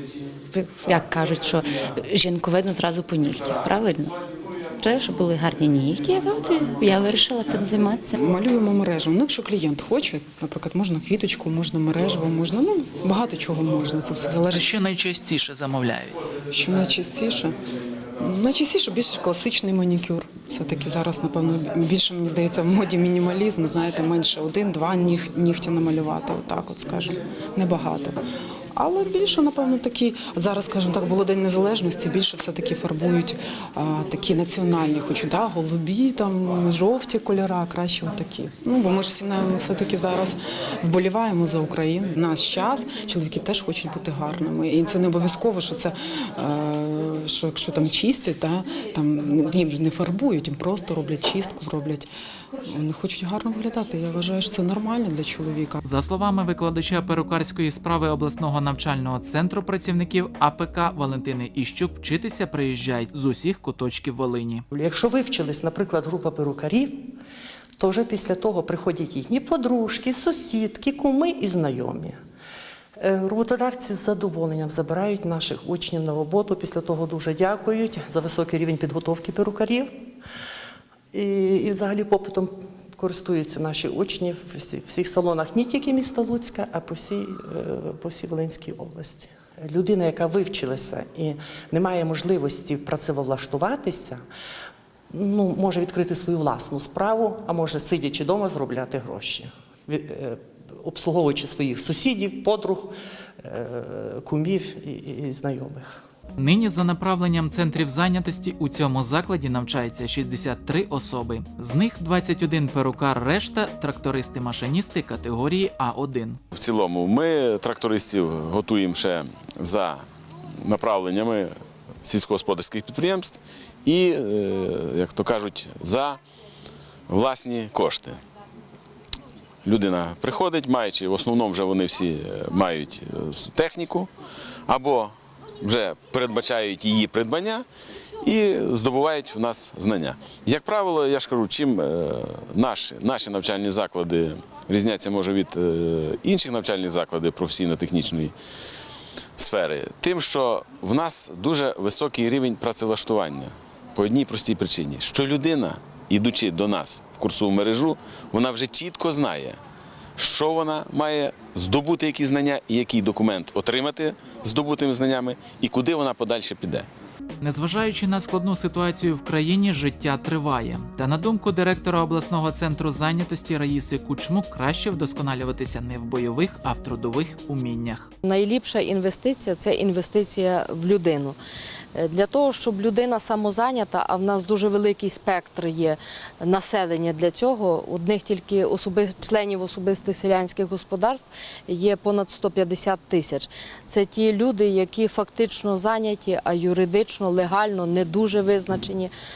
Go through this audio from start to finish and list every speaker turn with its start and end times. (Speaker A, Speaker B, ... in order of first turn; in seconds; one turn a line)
Speaker A: 0.5-4.1
Speaker A: 4.8-8.2
Speaker B: 8.1-14.6
Speaker C: 14.5-16.1
Speaker B: 16.5-17.6
Speaker B: 18.2-28.2
Speaker B: 28.7-52.1
Speaker B: 52.7-55.8
Speaker C: 55.8-64.7
Speaker D: 64.7-67.1
Speaker D: 67.8-72.2
Speaker D: 73.0-80.0
Speaker D: 81.1-94.2
Speaker D: 95.1-106.0
Speaker C: 106.4-116.4
Speaker E: 116.5-120.0
Speaker E: 120.6-121.5
Speaker E: 122.0-126.2
Speaker E: 127.1-128.2
Speaker E: 129.7-134.1
Speaker E: 134.7-137.7
Speaker E: 138.2-148.3
Speaker E: 149.4-159.6
Speaker E: 160.2-166.9
Speaker C: 167.4-178.1
Speaker F: 178.2-181.4
Speaker F: 181.9-199.1